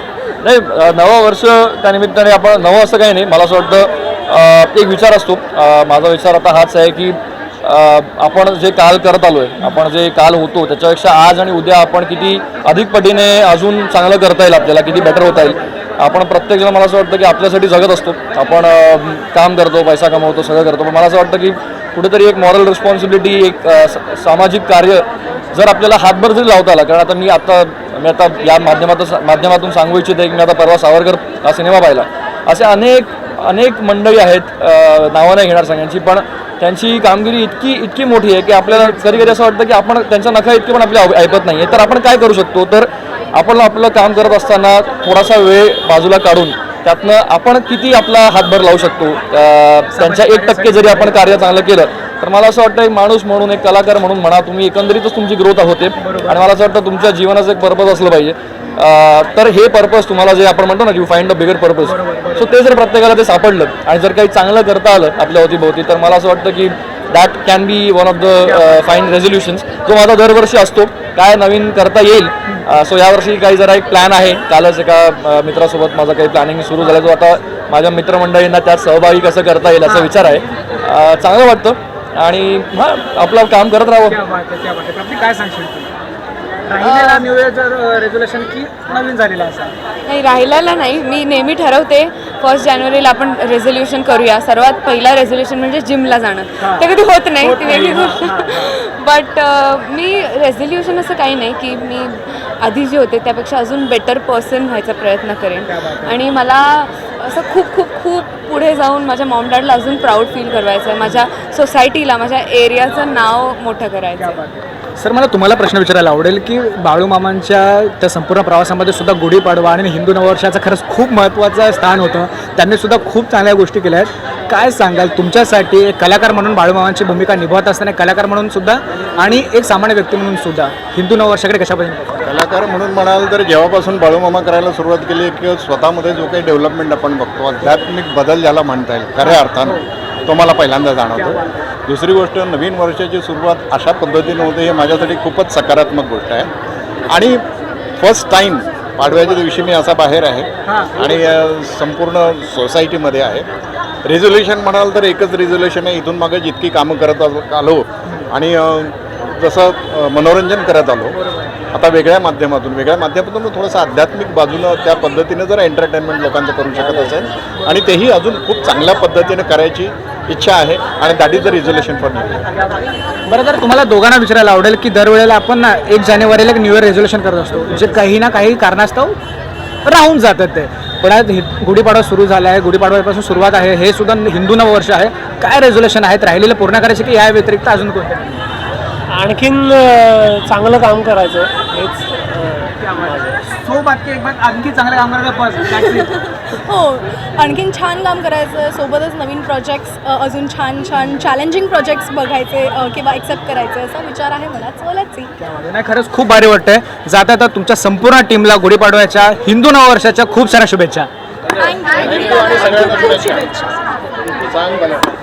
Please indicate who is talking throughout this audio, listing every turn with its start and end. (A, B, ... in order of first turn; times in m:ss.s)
0:00.4-1:24.2 A
0:49.9-0:51.3 B
0:56.0-0:56.4 B
1:01.8-1:02.5 B
1:19.8-1:20.1 B
1:24.1-1:25.9 B
1:26.7-1:29.8 B
1:26.8-1:27.2 C
1:30.1-1:54.4 C
1:36.6-1:36.9 B
1:37.4-1:38.7 B
1:45.7-1:46.2 B
1:54.2-2:12.2 B
2:12.2-2:26.5 D
2:19.2-2:19.8 B
2:21.2-2:21.6 B
2:27.1-2:27.4 D
2:28.0-2:33.5 D
2:30.7-2:31.0 B
2:34.0-2:41.2 D
2:41.7-2:52.5 D
2:53.3-2:59.2 B
2:59.8-3:08.4 B
3:09.1-3:13.4 E
3:13.4-3:16.2 B
3:16.0-3:25.3 F
3:25.4-3:31.1 B
3:31.6-3:33.9 F
3:32.0-3:33.5 D
3:34.2-3:35.1 D